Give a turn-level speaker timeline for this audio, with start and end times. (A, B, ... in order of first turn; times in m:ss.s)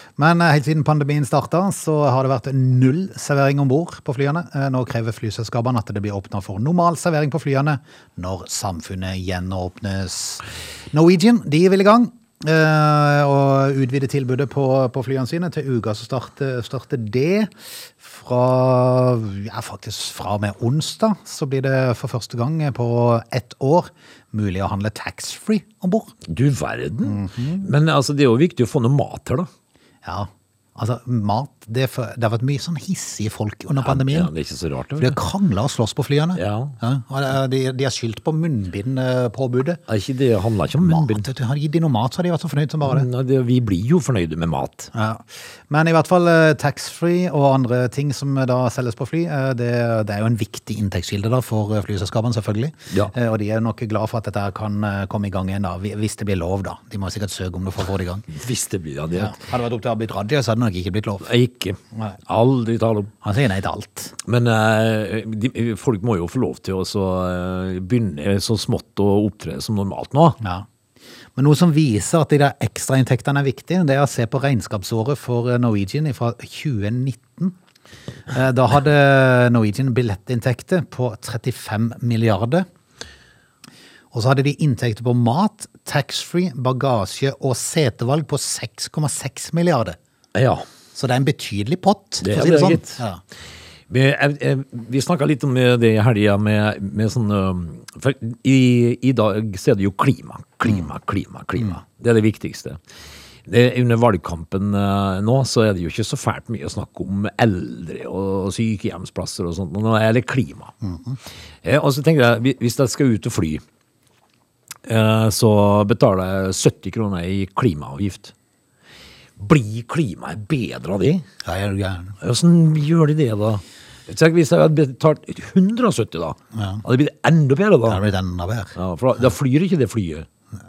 0:00.2-0:26.1 A
0:26.3-0:29.5 B
0:27.0-0:27.7 A
0:30.0-0:34.3 A
0:33.8-0:35.2 B
0:35.0-0:39.8 A
0:36.4-0:36.8 B
0:39.9-0:41.3 B
0:40.8-0:43.1 A
0:42.8-0:44.9 B
0:44.9-0:58.3 A
0:58.3-0:59.4 B
0:59.1-1:01.3 A
1:01.2-1:03.1 B
1:03.2-1:04.1 A
1:04.2-1:10.4 B
1:10.4-1:10.7 A
1:11.4-1:17.6 A
1:18.3-1:22.7 A
1:24.1-1:30.0 A
1:30.3-1:30.7 B
1:31.0-1:33.2 A
1:32.2-1:33.0 B
1:33.9-1:42.8 B
1:43.5-1:50.7 B
1:50.8-1:51.2 A
1:51.6-1:53.6 B
1:54.9-1:58.3 B
1:59.4-2:01.2 B
2:01.4-2:02.2 A
2:02.2-2:08.0 B
2:06.5-2:06.8 A
2:07.9-2:08.8 A
2:08.8-2:10.3 B